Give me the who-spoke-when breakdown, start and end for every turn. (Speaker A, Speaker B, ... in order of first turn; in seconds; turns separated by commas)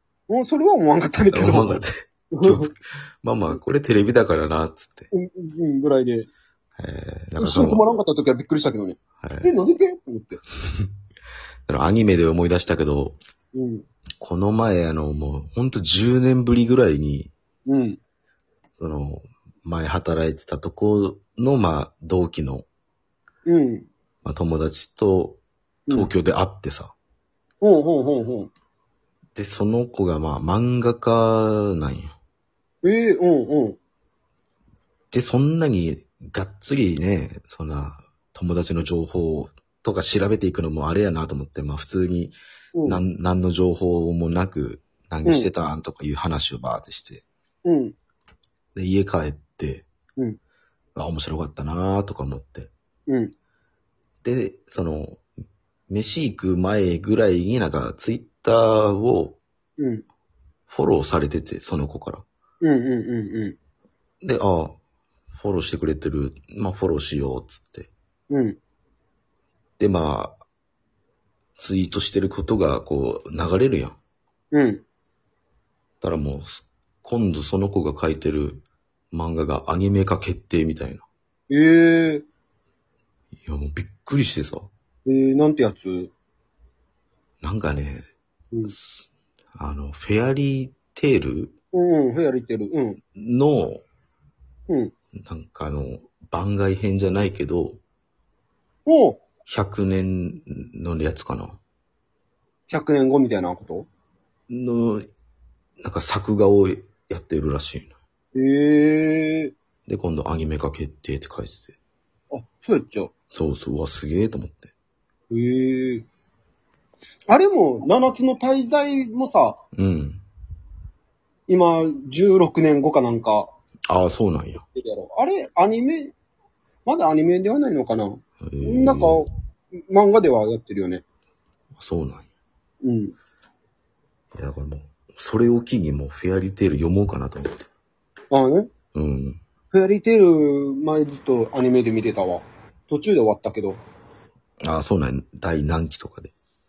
Speaker A: 0.3-1.8, Speaker B: 1.3-5.1, Speaker A: 2.3-2.7, Speaker A: 5.1-6.3, Speaker B: 6.8-7.8, Speaker A: 7.4-10.4, Speaker B: 9.2-9.5, Speaker B: 11.7-13.2, Speaker A: 13.5-13.9, Speaker B: 14.2-17.3, Speaker A: 17.7-18.0, Speaker B: 18.8-22.7, Speaker A: 23.5-23.9, Speaker B: 24.2-26.9, Speaker A: 27.6-28.5, Speaker B: 29.4-32.1, Speaker A: 32.8-33.8, Speaker B: 35.1-47.2, Speaker A: 42.8-43.0, Speaker A: 47.6-48.0, Speaker B: 48.8-49.9, Speaker B: 51.0-52.7, Speaker B: 54.2-55.2, Speaker B: 55.9-59.4, Speaker A: 59.8-60.0, Speaker B: 60.7-62.2, Speaker A: 62.6-63.6, Speaker B: 64.2-64.8, Speaker B: 65.3-67.9, Speaker A: 68.3-68.6, Speaker B: 69.8-70.4, Speaker B: 71.6-74.0, Speaker A: 74.5-74.8, Speaker B: 76.0-81.1, Speaker A: 81.5-82.2, Speaker B: 83.5-84.7, Speaker A: 85.1-86.1, Speaker B: 87.4-88.0, Speaker B: 88.7-89.0, Speaker B: 89.5-91.5, Speaker A: 91.7-93.0, Speaker B: 93.2-93.8, Speaker B: 95.2-97.8, Speaker A: 98.9-99.2, Speaker B: 99.5-101.6, Speaker A: 102.7-103.9, Speaker B: 104.5-105.1, Speaker B: 105.8-107.9, Speaker A: 108.3-109.5, Speaker B: 109.9-111.8, Speaker A: 112.3-113.1, Speaker B: 113.3-114.7, Speaker A: 115.3-116.1, Speaker A: 117.3-119.6, Speaker B: 119.8-120.2, Speaker A: 121.5-123.5, Speaker B: 123.9-124.6, Speaker A: 124.8-126.1, Speaker A: 126.9-129.3, Speaker B: 128.4-129.3, Speaker A: 129.9-131.0, Speaker B: 131.8-132.3, Speaker A: 132.8-133.2, Speaker B: 134.3-137.7, Speaker A: 138.3-138.7, Speaker B: 138.9-139.4, Speaker A: 139.7-143.8, Speaker B: 144.6-146.3